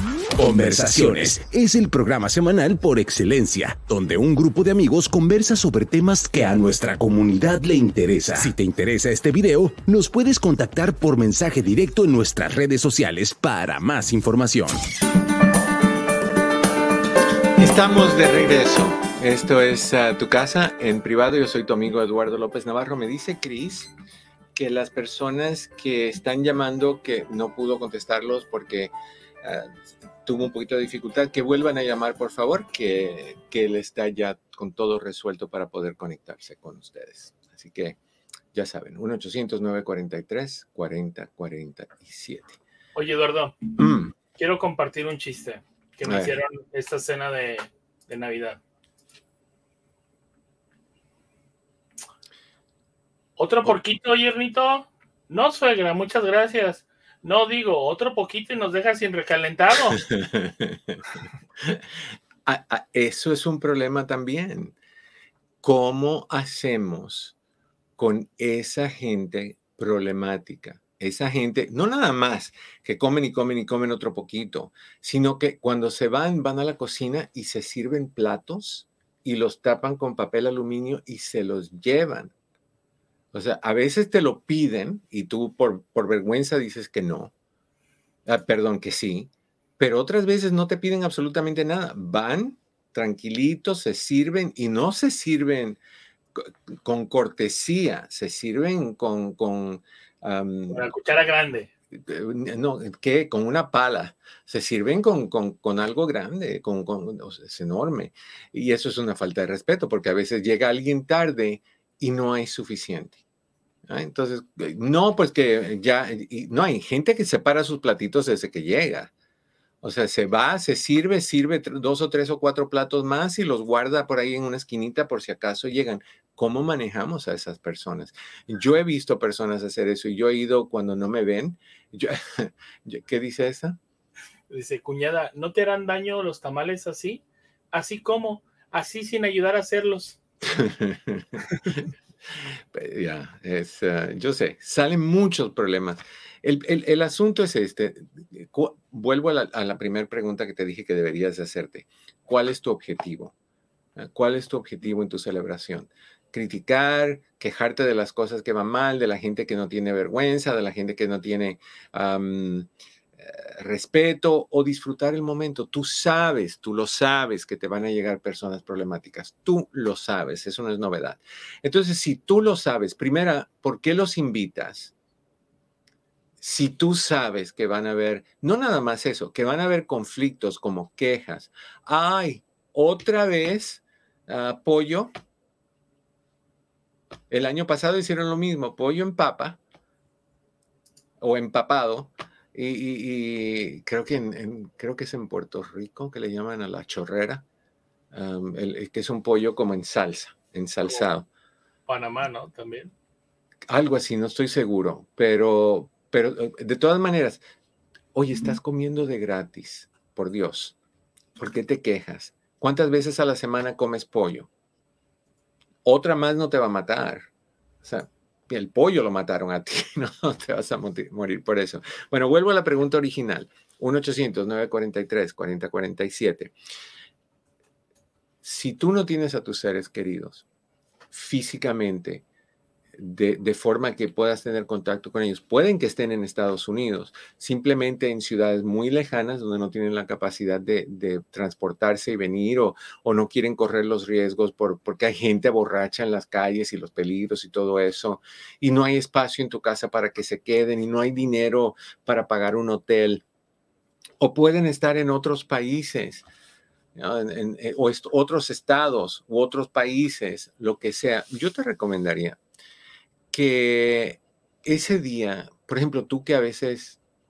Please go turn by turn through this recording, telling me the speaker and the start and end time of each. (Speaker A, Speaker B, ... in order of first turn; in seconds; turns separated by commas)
Speaker A: 0.4-14.8, Speaker B: 17.6-23.9, Speaker B: 24.5-38.0, Speaker B: 38.5-42.6, Speaker C: 42.9-43.6, Speaker B: 43.8-44.1, Speaker C: 44.3-48.6, Speaker B: 46.0-46.4, Speaker C: 53.4-60.0, Speaker B: 59.9-61.8, Speaker B: 62.5-64.8, Speaker B: 65.6-67.3, Speaker B: 68.0-82.3, Speaker B: 83.3-87.3, Speaker B: 88.2-95.8, Speaker B: 96.4-100.9, Speaker C: 100.7-101.7, Speaker B: 101.9-113.2, Speaker B: 113.9-119.1, Speaker B: 119.8-133.8, Speaker C: 134.5-140.2, Speaker B: 140.4-153.3, Speaker B: 154.0-162.7, Speaker B: 163.2-174.9, Speaker B: 176.4-185.1, Speaker B: 187.3-189.6, Speaker B: 191.2-197.4, Speaker B: 198.1-201.3, Speaker C: 201.9-202.9, Speaker B: 203.7-207.4, Speaker B: 208.1-210.8, Speaker B: 211.3-214.5, Speaker B: 215.8-217.3, Speaker B: 217.8-226.5, Speaker B: 228.4-230.4, Speaker B: 231.1-232.2, Speaker B: 232.9-253.2, Speaker B: 254.2-256.2, Speaker B: 256.9-262.4, Speaker B: 263.3-267.0